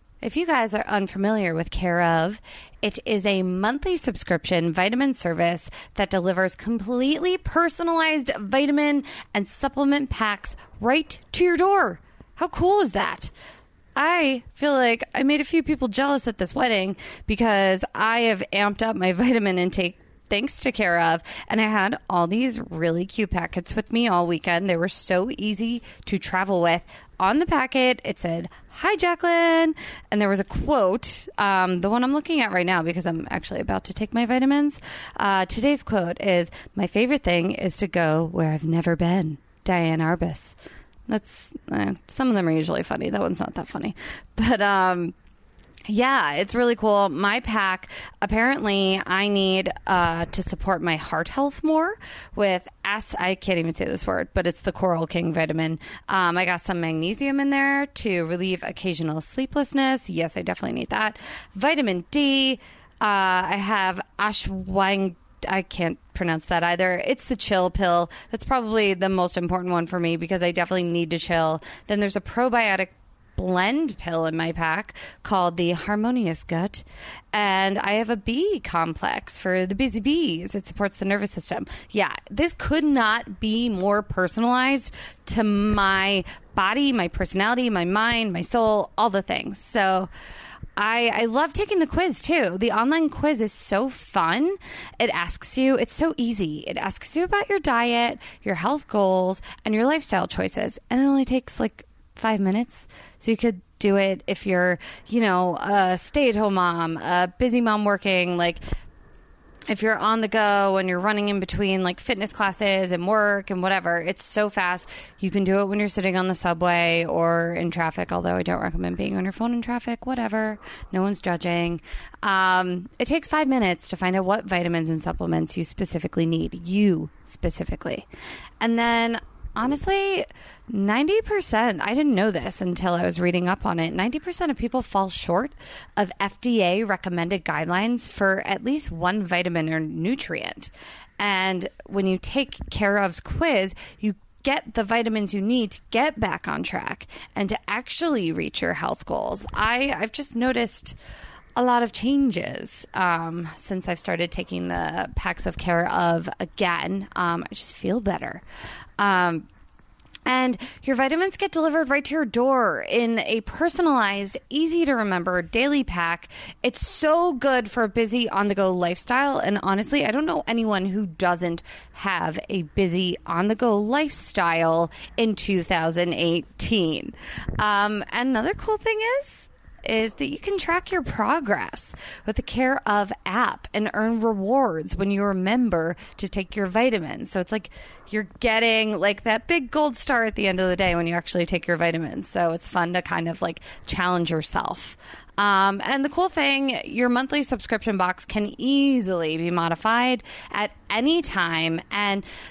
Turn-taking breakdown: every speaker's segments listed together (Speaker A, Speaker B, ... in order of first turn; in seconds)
Speaker A: 0.2-13.3, 14.0-40.6, 41.1-45.1, 45.9-90.1, 90.8-108.6, 109.7-128.1, 128.6-151.0, 151.6-158.4, 159.0-159.5, 160.3-202.2